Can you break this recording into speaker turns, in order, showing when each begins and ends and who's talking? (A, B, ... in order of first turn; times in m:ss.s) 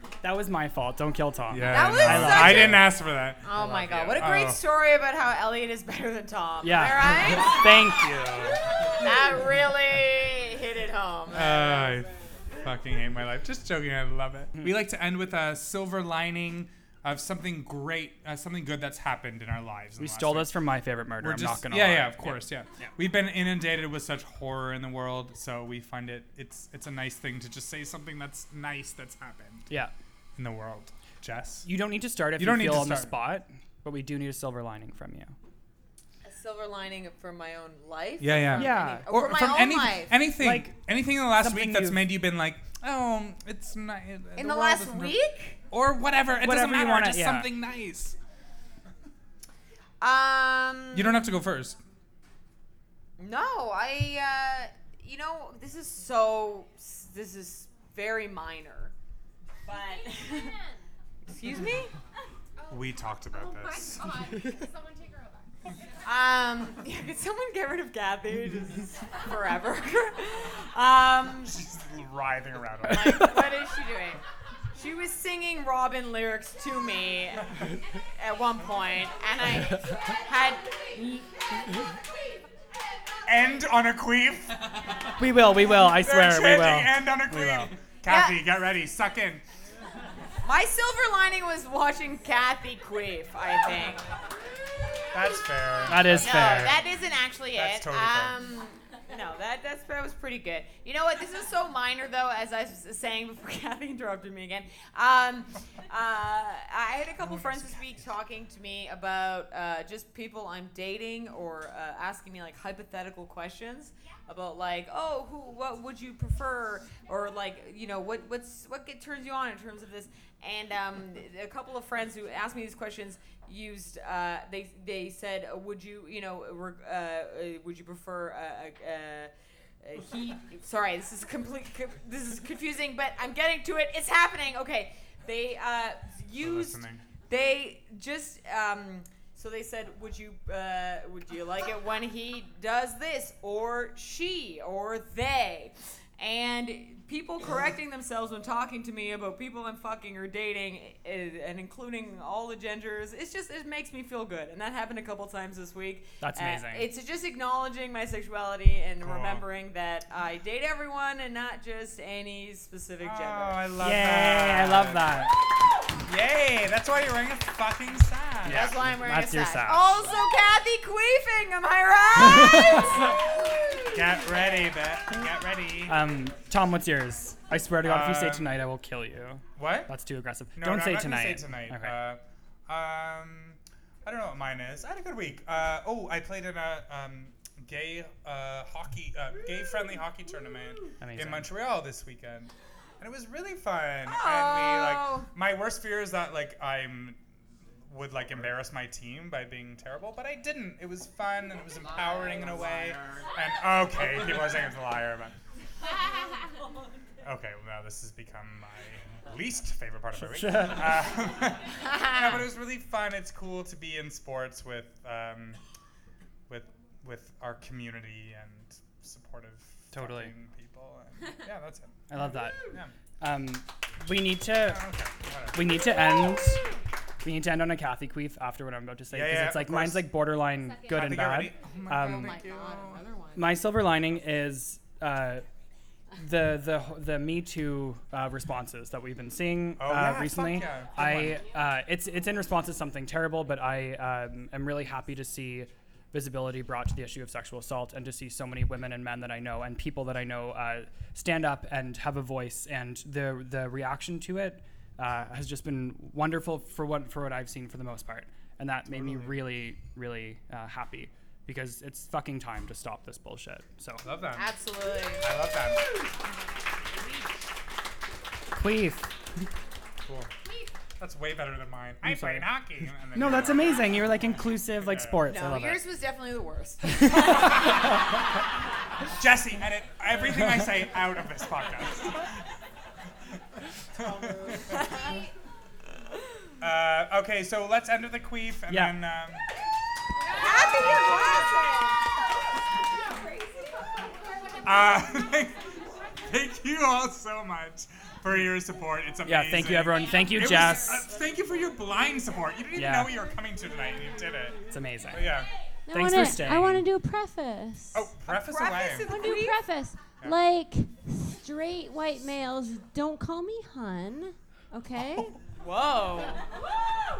0:00.2-0:02.9 A
0:01.5-0:04.6 B
0:01.7-0:07.7 C
0:06.6-0:08.6 A
0:08.1-0:08.6 B
0:09.0-0:11.9 C
0:11.3-0:20.5 B
0:20.0-0:22.9 A
0:21.2-0:29.7 B
0:30.4-0:31.7 B
0:31.6-0:35.3 A
0:32.4-0:33.2 B
0:36.2-0:40.2 C
0:38.2-0:45.2 B
0:38.6-0:39.1 A
0:40.4-0:42.1 A
0:44.4-0:45.6 C
0:45.7-0:48.2 B
0:46.4-0:47.5 A
0:50.0-0:51.2 C
0:50.9-0:51.8 B
0:53.2-0:58.9 C
0:59.7-1:00.6 C
0:59.7-1:00.8 D
1:01.3-1:01.9 C
1:02.6-1:02.8 D
1:02.7-1:04.1 B
1:03.3-1:05.5 D
1:06.0-1:11.6 C
1:11.4-1:13.4 B
1:12.9-1:14.2 C
1:12.9-1:13.3 A
1:14.8-1:21.4 C
1:19.6-1:22.7 D
1:23.3-1:24.7 B
1:25.2-1:27.6 A
1:25.6-1:29.4 B
1:28.0-1:28.5 C
1:30.4-1:34.1 C
1:35.1-1:36.8 B
1:35.9-1:36.8 A
1:36.1-2:43.7 C
1:37.5-1:38.4 B
1:47.2-1:48.1 B
2:16.4-2:17.0 B
2:36.2-2:36.9 A
2:39.0-2:39.4 B
2:43.0-2:45.3 B
2:43.8-2:45.3 A
2:46.0-2:48.8 B
2:48.4-2:49.8 A
2:48.5-2:54.2 C
2:52.2-2:52.9 A
2:53.9-2:56.0 B
2:55.9-3:02.0 A
2:57.8-2:58.6 B
2:59.6-2:59.9 B
3:00.6-3:17.2 B
3:11.0-3:11.5 A
3:14.1-3:15.3 C
3:17.9-3:25.3 B
3:27.2-3:35.6 B
3:30.2-3:31.0 A
3:36.5-3:42.2 B
3:39.9-3:40.3 A
3:42.1-3:42.7 A
3:43.2-3:44.8 A
3:44.5-3:45.9 B
3:45.5-3:46.6 A
3:47.2-3:52.4 A
3:49.1-3:50.1 B
3:50.5-3:51.3 D
3:50.9-3:53.0 B
3:52.0-3:53.6 C
3:52.3-3:53.0 D
3:53.4-3:55.4 A
3:56.2-4:24.1 A
3:59.8-4:01.4 B
4:18.9-4:19.4 B
4:24.0-4:24.5 B
4:24.4-4:25.2 C
4:25.2-4:25.8 B
4:28.5-4:29.1 A
4:30.0-4:30.3 B
4:31.0-4:35.3 B
4:32.0-4:32.6 A
4:33.1-4:35.8 A
4:35.3-4:37.5 C
4:37.0-4:37.4 A
4:37.1-4:38.0 B
4:39.1-4:42.4 B
4:44.0-4:44.8 B
4:44.2-4:45.2 D
4:44.6-4:45.1 C
4:46.6-4:49.5 B
4:48.7-4:49.0 A
4:50.2-4:51.6 D
4:50.4-4:52.0 C
4:50.8-4:51.5 B
4:52.5-4:55.2 D
4:54.6-4:55.6 B
4:56.2-5:05.5 B
4:59.2-5:01.0 A
5:02.8-5:03.2 A
5:04.7-5:06.9 A
5:05.9-5:08.0 E
5:07.9-5:09.1 B
5:08.3-5:09.6 C
5:09.0-5:15.4 E
5:15.5-5:16.4 C